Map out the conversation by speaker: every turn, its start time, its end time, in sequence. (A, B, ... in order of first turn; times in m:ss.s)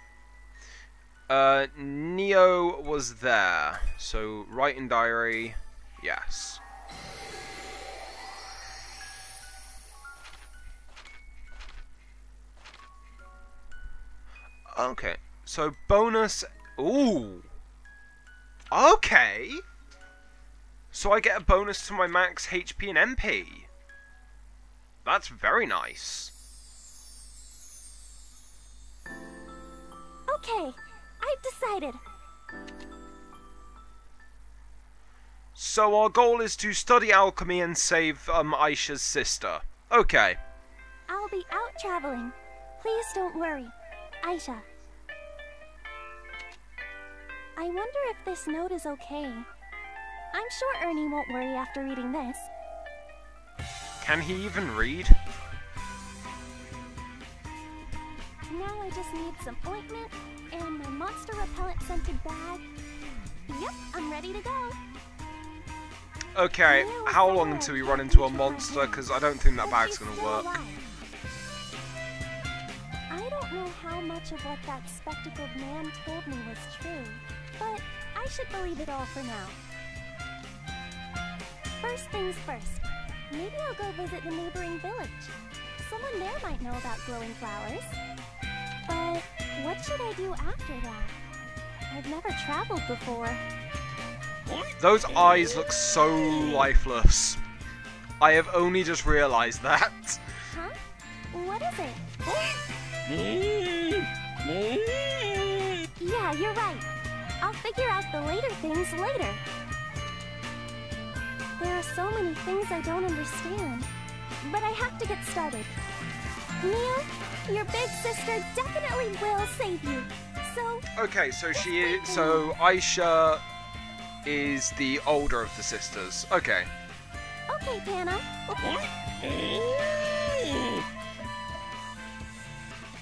0:01.3-0:06.6 A
0:14.7-0:17.4 A
0:18.7-0:19.6 A
0:20.9-0:23.7 A
0:25.0-0:26.3 A
0:30.3-0:32.0 B
0:35.6-0:40.4 A
0:41.1-0:44.6 B
0:47.6-0:49.5 B
0:50.3-0:52.5 B
0:54.0-0:55.2 A
0:58.5-1:02.6 B
1:03.5-1:04.8 B
1:06.3-1:10.5 A
1:06.7-1:09.0 B
1:09.6-1:10.8 B
1:13.1-1:19.6 B
1:21.8-1:28.0 B
1:28.9-1:31.2 B
1:31.9-1:33.4 B
1:34.8-1:37.4 A
1:38.2-1:40.3 A
1:41.3-1:42.0 B
1:46.0-1:46.9 B
1:47.4-1:49.4 B
1:51.6-1:53.9 B
1:54.4-1:55.7 B
1:56.6-2:00.8 B
2:00.9-2:03.4 A
2:01.5-2:02.5 B
2:04.2-2:06.7 A
2:07.5-2:09.6 B